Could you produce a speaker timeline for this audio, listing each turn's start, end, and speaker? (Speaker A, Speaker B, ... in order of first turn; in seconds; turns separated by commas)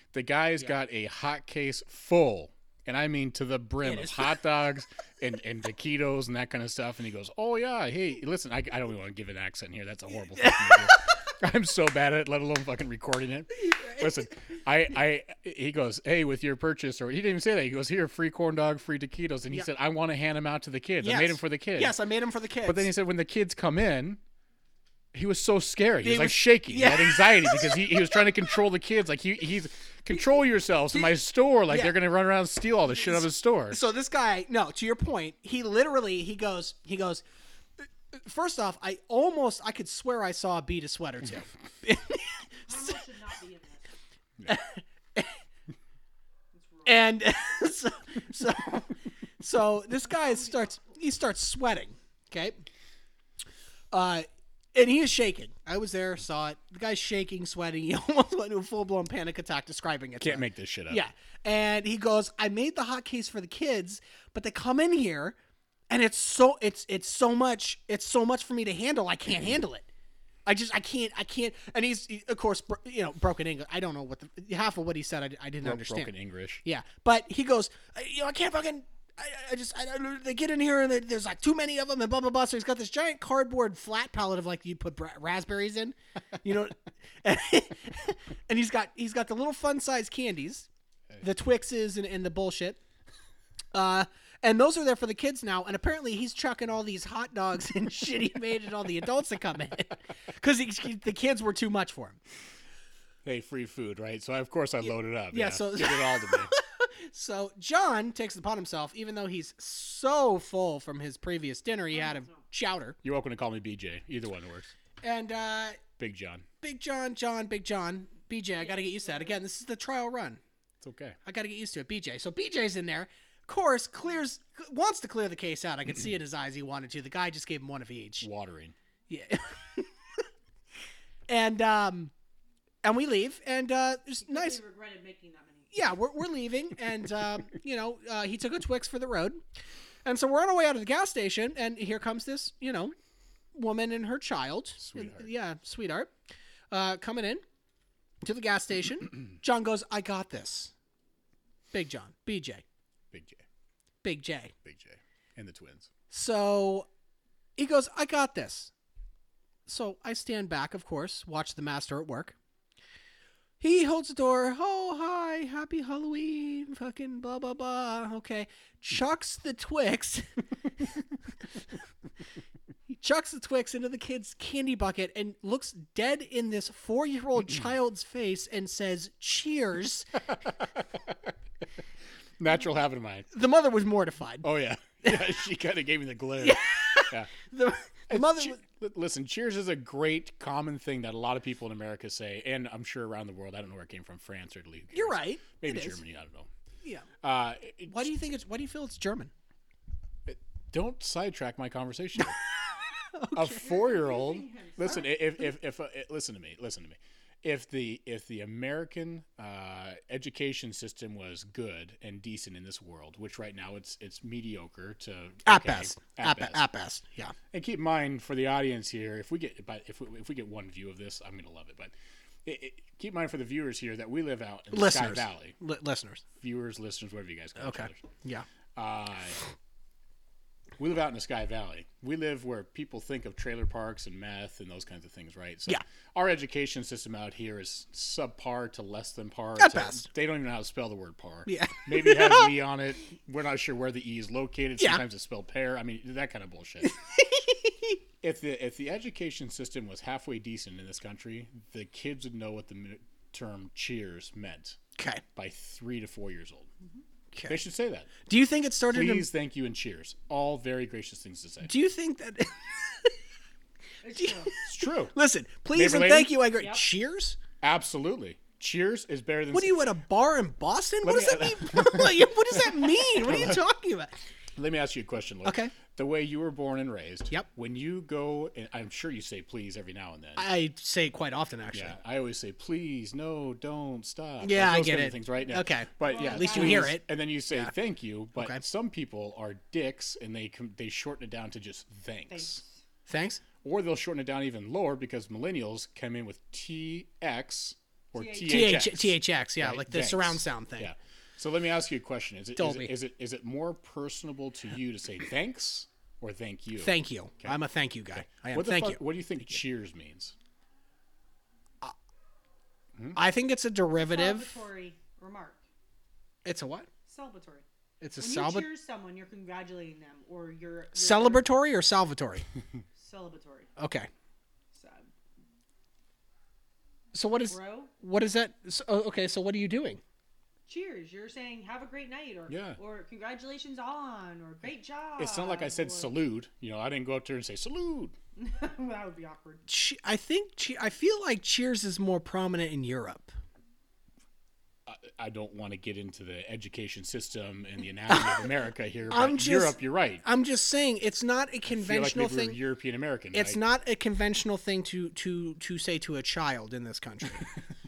Speaker A: 0.1-22.0, Speaker B: 3.8-4.4, Speaker B: 10.4-11.1, Speaker B: 13.6-14.2, Speaker B: 21.0-22.9, Speaker A: 22.7-24.2, Speaker A: 25.1-33.8, Speaker B: 26.0-28.2, Speaker B: 30.9-32.0, Speaker B: 32.9-37.2, Speaker B: 37.8-43.0, Speaker C: 42.7-43.9, Speaker B: 44.5-45.4, Speaker C: 46.5-47.1, Speaker B: 46.9-52.6, Speaker C: 50.0-50.8, Speaker B: 53.9-65.4, Speaker A: 60.2-61.0, Speaker B: 65.9-69.9, Speaker B: 70.5-90.7, Speaker A: 75.6-76.6, Speaker B: 91.2-92.8, Speaker B: 93.7-102.2, Speaker A: 103.2-106.5, Speaker B: 105.3-113.0, Speaker C: 111.9-112.4, Speaker A: 113.0-114.7, Speaker B: 115.0-115.8, Speaker A: 116.0-116.5, Speaker B: 116.6-120.4, Speaker C: 118.6-119.3, Speaker A: 120.8-121.2, Speaker B: 121.2-128.3, Speaker A: 128.2-128.8, Speaker B: 129.1-129.9, Speaker B: 131.3-132.1, Speaker B: 132.8-134.6, Speaker C: 134.2-135.7, Speaker B: 135.7-139.4, Speaker B: 140.1-142.9, Speaker B: 143.5-146.1, Speaker A: 144.8-145.3, Speaker B: 146.7-147.4, Speaker B: 148.2-150.7, Speaker B: 151.7-152.6, Speaker A: 153.1-153.4, Speaker B: 154.0-154.5, Speaker A: 154.6-155.9, Speaker B: 156.1-156.9, Speaker B: 157.6-158.7, Speaker B: 159.7-162.3, Speaker B: 163.6-170.3, Speaker B: 172.9-180.2, Speaker A: 182.4-183.3, Speaker B: 183.3-184.5, Speaker A: 184.4-186.6, Speaker B: 186.4-188.6, Speaker A: 188.1-196.5, Speaker B: 194.9-196.0, Speaker B: 196.8-197.1, Speaker A: 197.2-198.1, Speaker B: 197.9-199.3, Speaker A: 200.3-202.4, Speaker B: 203.0-203.5, Speaker A: 203.3-216.6, Speaker C: 203.5-205.0, Speaker B: 215.5-217.3, Speaker A: 217.5-221.9, Speaker A: 222.4-225.6, Speaker B: 224.7-226.2, Speaker A: 226.4-228.1, Speaker B: 227.6-228.5, Speaker A: 228.8-229.4, Speaker A: 230.8-246.9, Speaker B: 239.6-240.1, Speaker B: 241.5-242.5, Speaker B: 246.8-248.0, Speaker A: 248.2-254.8, Speaker B: 255.0-255.2, Speaker A: 255.4-256.7, Speaker B: 257.3-257.6, Speaker A: 257.5-258.1, Speaker B: 258.3-259.3, Speaker A: 258.9-261.7, Speaker B: 261.6-263.1, Speaker C: 264.0-264.5, Speaker B: 264.2-267.4, Speaker A: 264.7-265.2, Speaker A: 265.7-266.4, Speaker C: 266.6-266.9, Speaker A: 267.6-269.9, Speaker B: 269.5-274.1, Speaker A: 271.0-273.6, Speaker A: 274.6-280.5, Speaker B: 275.4-275.8, Speaker B: 280.4-282.0, Speaker A: 281.7-292.6, Speaker B: 284.4-287.7, Speaker C: 286.0-286.9, Speaker B: 288.4-288.6, Speaker C: 292.3-292.8, Speaker B: 293.1-293.4, Speaker A: 293.6-307.6, Speaker C: 298.1-298.8, Speaker B: 298.5-300.9, Speaker B: 302.6-302.9, Speaker B: 306.8-309.0, Speaker A: 308.2-310.4, Speaker B: 313.1-314.5, Speaker C: 313.9-315.6, Speaker B: 316.4-316.9, Speaker C: 317.1-317.6, Speaker B: 318.0-318.7, Speaker C: 318.2-321.5, Speaker B: 320.9-322.5, Speaker C: 323.0-323.7, Speaker B: 323.8-324.1, Speaker C: 324.7-325.1, Speaker B: 327.1-330.0, Speaker C: 327.4-327.9, Speaker C: 330.7-336.2, Speaker A: 332.5-332.8, Speaker A: 335.2-338.1, Speaker C: 338.4-339.6, Speaker B: 339.7-343.3, Speaker A: 344.9-350.2, Speaker B: 348.1-348.5, Speaker B: 349.1-352.6, Speaker A: 351.7-353.6, Speaker B: 353.3-357.5